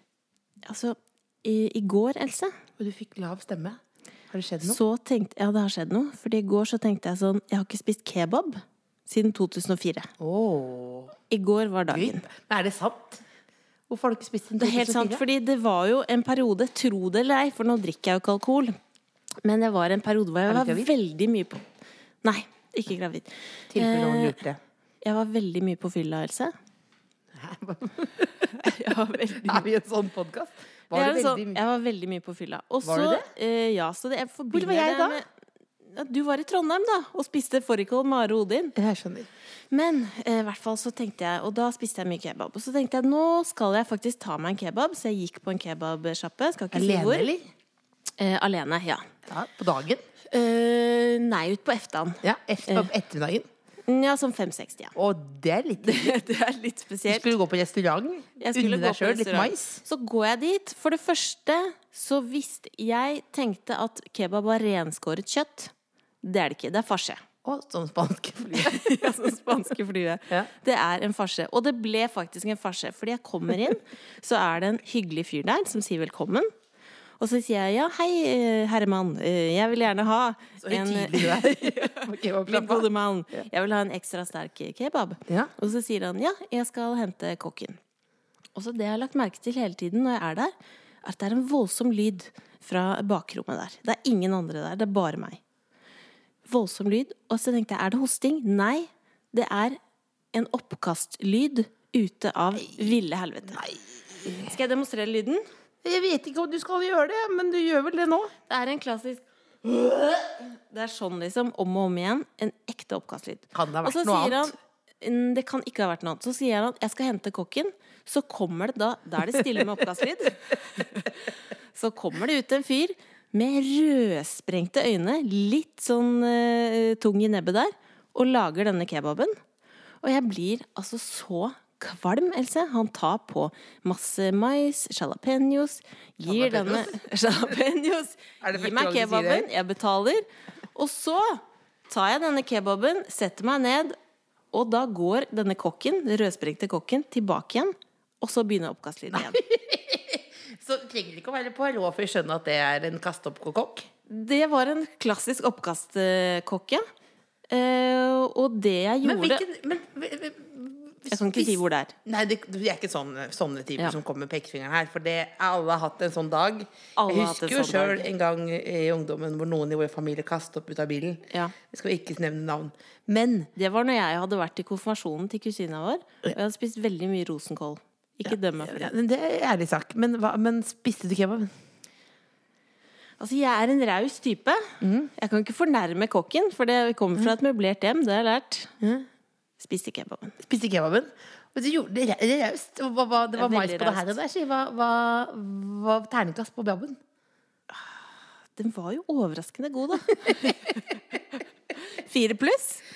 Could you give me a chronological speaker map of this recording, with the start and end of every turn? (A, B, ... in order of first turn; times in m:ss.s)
0:00.7-0:02.5 A
0:02.8-0:04.8 B
0:04.6-0:10.1 A
0:10.2-0:11.2 B
0:11.3-0:12.2 A
0:11.9-0:13.2 B
0:13.9-0:15.2 B
0:14.6-0:18.8 A
0:19.4-0:21.6 A
0:20.5-0:20.9 B
0:22.2-0:24.4 A
0:23.7-0:24.6 B
0:25.0-0:26.5 A
0:27.3-0:31.6 B
0:28.6-0:29.7 A
0:30.9-0:35.3 A
0:32.8-0:33.3 B
0:34.5-0:35.2 B
0:35.9-0:38.7 A
0:38.8-0:39.3 B
0:39.7-0:47.3 A
0:46.7-0:47.5 B
0:48.2-0:49.0 A
0:49.3-0:50.0 B
0:50.3-0:52.9 A
0:52.2-0:53.5 B
0:53.9-0:55.0 A
0:55.0-0:56.2 B
0:55.8-0:57.3 A
0:57.1-0:59.8 B
0:58.4-1:05.7 A
1:06.2-1:07.2 A
1:07.4-1:09.1 B
1:08.6-1:16.5 A
1:17.2-1:27.8 A
1:20.6-1:23.4 B
1:25.3-1:25.5 B
1:28.6-1:35.4 A
1:36.5-1:39.8 A
1:40.3-1:43.7 A
1:42.7-1:42.9 B
1:43.5-1:44.5 B
1:44.2-1:45.4 A
1:45.8-1:48.3 B
1:48.5-2:09.3 A
1:53.5-1:54.5 B
2:10.0-2:24.0 A
2:16.2-2:17.0 B
2:18.4-2:19.5 B
2:24.5-2:29.4 A
2:29.1-2:33.9 B
2:34.1-2:36.8 A
2:37.5-2:39.4 A
2:39.0-2:53.5 B
2:41.1-2:41.9 A
2:47.0-2:48.1 A
2:53.6-2:58.9 A
2:58.3-3:01.5 B
3:03.2-3:04.6 A
3:04.8-3:05.1 B
3:05.2-3:08.7 A
3:08.8-3:09.1 B
3:09.6-3:10.4 A
3:10.4-3:17.0 B
3:13.4-3:14.2 A
3:18.6-3:21.0 A
3:20.2-3:20.7 B
3:21.8-3:22.8 A